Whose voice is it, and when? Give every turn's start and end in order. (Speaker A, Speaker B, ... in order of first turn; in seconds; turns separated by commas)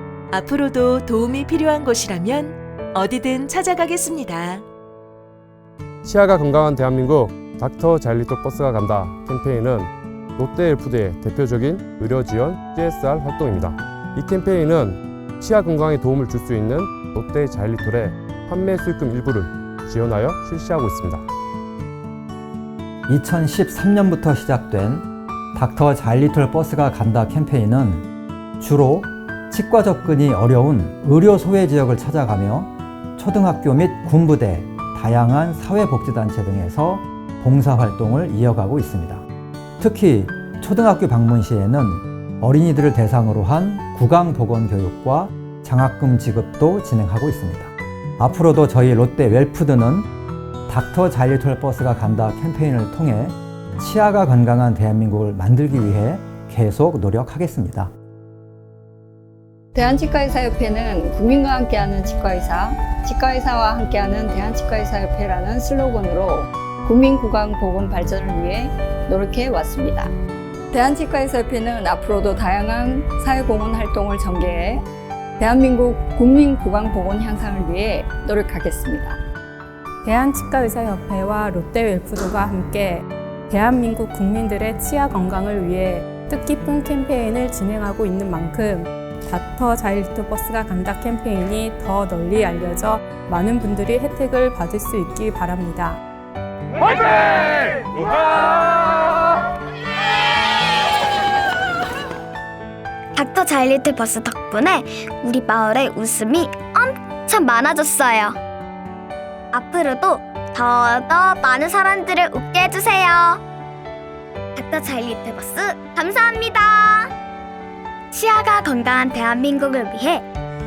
Speaker A: 0.3-4.6, Speaker B: 6.0-21.2, Speaker C: 23.1-28.1, Speaker C: 28.6-39.2, Speaker C: 39.8-50.1, Speaker C: 50.7-57.9, Speaker D: 59.7-70.1, Speaker D: 70.7-74.8, Speaker D: 75.4-79.2, Speaker E: 80.0-96.0, Speaker F: 103.2-108.4, Speaker F: 109.5-113.4, Speaker F: 114.5-117.1, Speaker F: 118.1-120.2